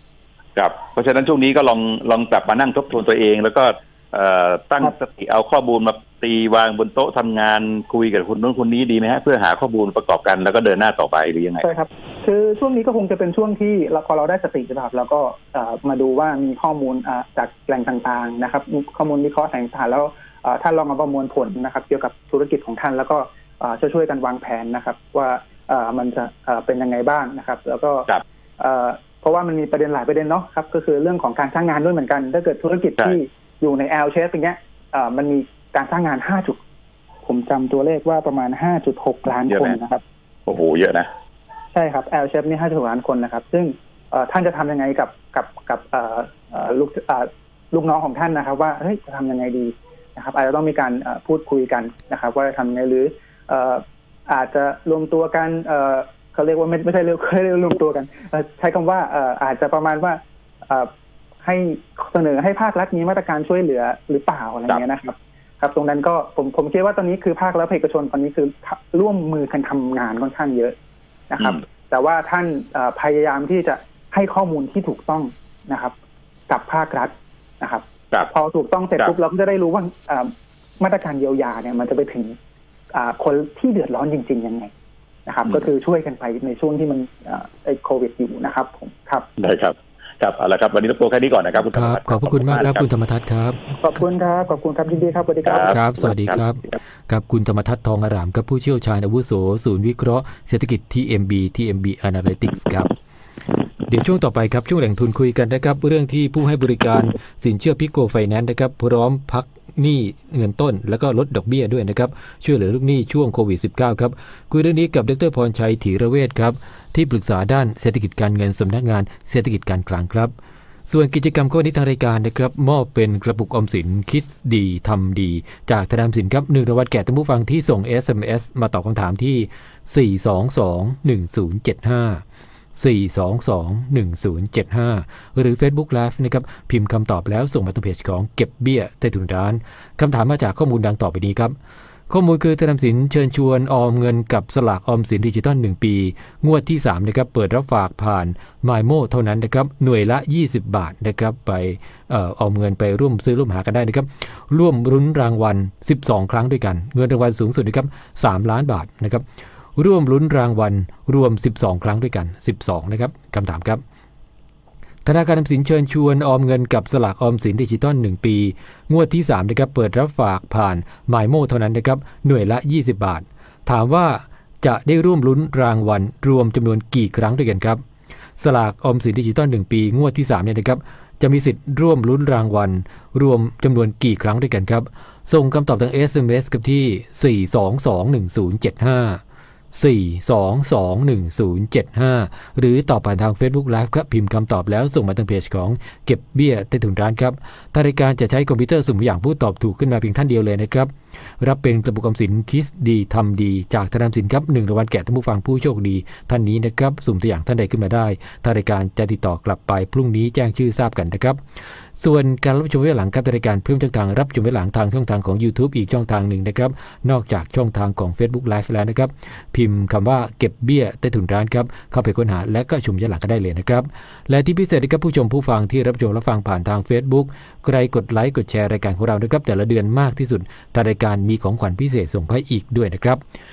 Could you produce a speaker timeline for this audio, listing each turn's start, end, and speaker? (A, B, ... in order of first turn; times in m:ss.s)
0:00.6-0:11.7 A
0:11.6-0:36.6 B
0:37.2-0:40.0 B
0:39.5-0:39.8 A
0:40.5-0:41.1 A
0:41.7-1:00.9 B
1:01.4-1:10.7 B
1:11.3-1:15.9 B
1:16.5-1:22.4 B
1:22.9-1:24.7 B
1:25.2-1:29.3 B
1:29.4-1:32.8 A
1:31.7-1:33.6 C
1:33.8-1:35.8 B
1:35.4-1:36.4 A
1:35.6-1:42.9 C
1:43.9-2:00.3 C
2:00.8-2:12.2 C
2:12.7-2:21.5 C
2:22.1-2:39.2 C
2:39.8-2:43.8 C
2:45.0-2:57.8 C
2:58.4-3:09.2 C
3:09.7-3:31.4 C
3:32.0-3:53.2 C